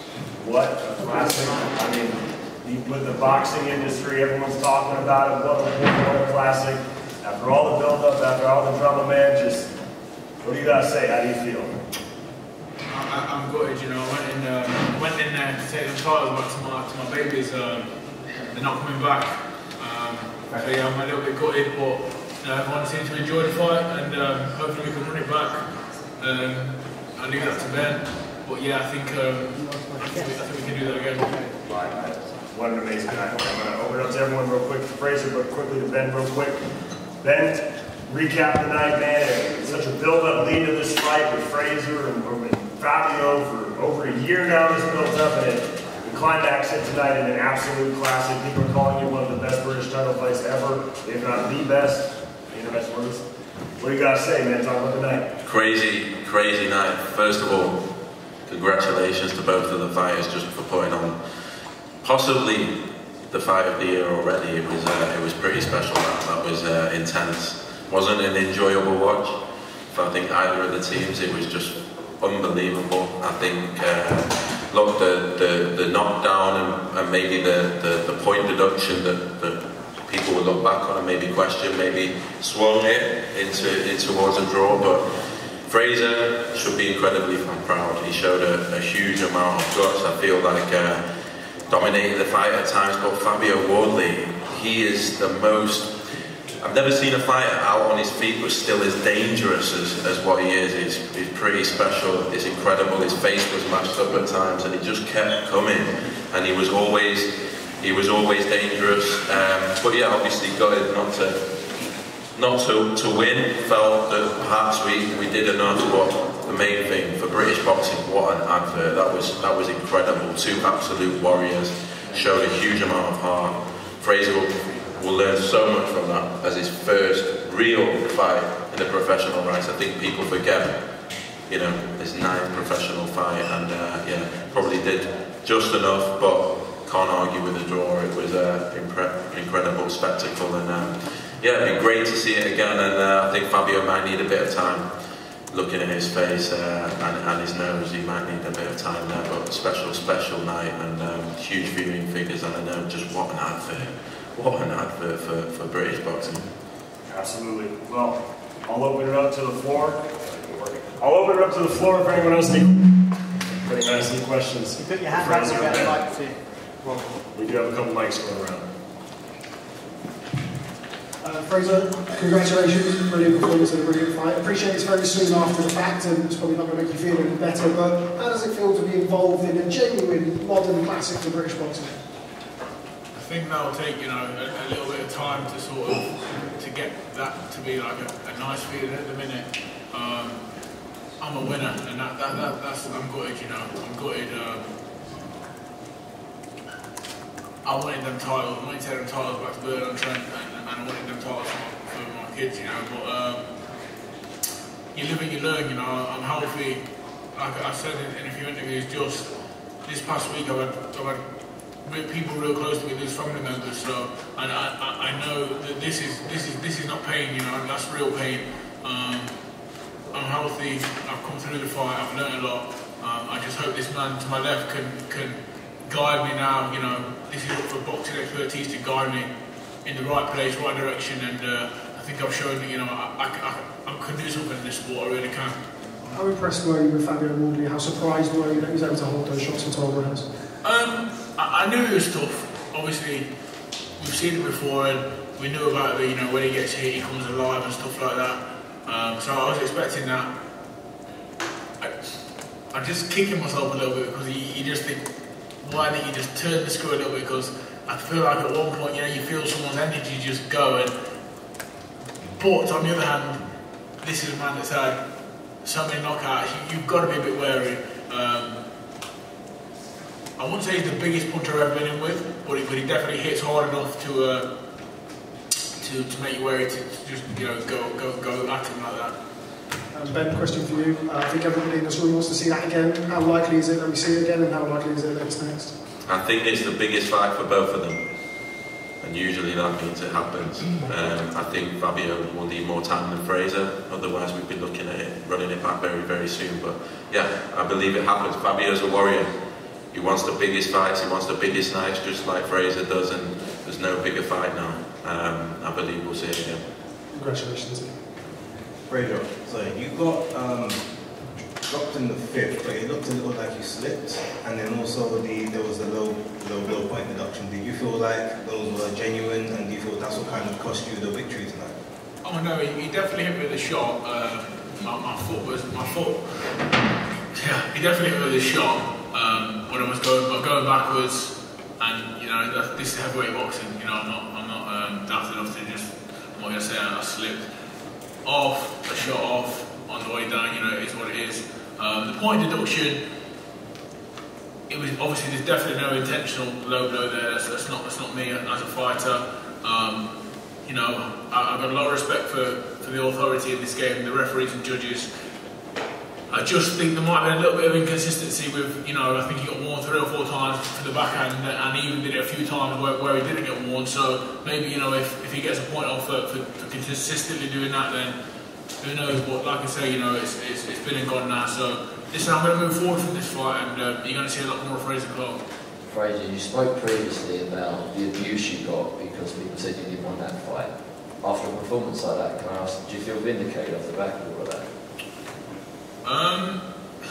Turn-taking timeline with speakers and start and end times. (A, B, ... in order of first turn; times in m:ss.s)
0:00.4-0:02.1 A
0:00.9-0:01.5 B
0:02.6-0:09.6 A
0:04.6-0:05.0 B
0:06.1-0:06.5 B
0:10.4-0:11.5 A
0:12.9-0:17.9 C
0:18.4-0:25.6 C
0:26.2-0:31.4 C
0:31.6-0:36.5 A
0:32.7-0:33.1 B
0:38.1-0:53.1 A
0:38.3-0:38.8 B
0:39.6-0:40.2 B
0:46.3-0:46.8 B
0:47.4-0:48.2 B
0:48.8-0:49.7 B
0:50.6-0:51.2 B
0:53.8-0:55.1 A
0:54.0-0:55.2 B
0:55.4-0:57.8 D
0:58.5-1:01.2 D
1:02.0-1:02.8 D
1:03.3-1:09.4 D
1:09.9-1:25.0 D
1:25.7-1:31.0 D
1:31.7-1:35.9 D
1:36.6-1:47.3 D
1:47.8-1:51.4 D
1:52.4-2:10.8 D
2:11.5-2:24.9 D
2:25.5-2:36.4 D
2:37.1-2:37.9 A
2:37.2-2:38.2 B
2:38.7-2:40.0 B
2:40.5-2:41.1 A
2:40.8-2:42.7 B
2:43.6-2:45.9 A
2:43.8-2:44.7 B
2:44.8-2:47.2 E
2:45.3-2:45.9 B
2:47.3-2:47.7 A
2:47.7-2:48.6 B
2:51.2-3:01.9 B
3:03.1-3:10.4 C
3:11.2-3:14.7 C
3:17.6-3:23.5 C
3:24.9-3:26.8 C
3:27.3-3:29.3 C
3:29.8-3:31.2 C
3:31.8-3:39.4 C
3:40.1-3:49.3 C
3:49.8-3:55.6 C
3:56.1-4:00.2 B
4:00.6-4:03.3 C
4:04.0-4:10.3 C
4:11.8-4:12.1 C
4:12.7-4:15.0 C
4:15.6-4:20.9 C
4:22.4-4:23.4 C
4:24.0-4:25.0 C
4:25.6-4:28.6 C
4:30.4-4:34.5 C
4:35.8-4:39.1 C
4:39.9-4:45.7 B
4:46.0-4:48.0 D
4:49.0-4:59.3 D
4:59.9-5:06.6 D
5:07.1-5:07.9 B
5:08.9-5:10.8 F
5:11.7-5:21.7 F
5:22.2-5:26.3 C
5:27.3-5:37.4 C
5:38.2-5:43.0 C
5:44.7-5:50.1 C
5:50.6-5:55.1 C
5:56.3-6:08.2 C
6:08.8-6:15.4 C
6:15.9-6:24.7 G
6:26.0-6:26.6 C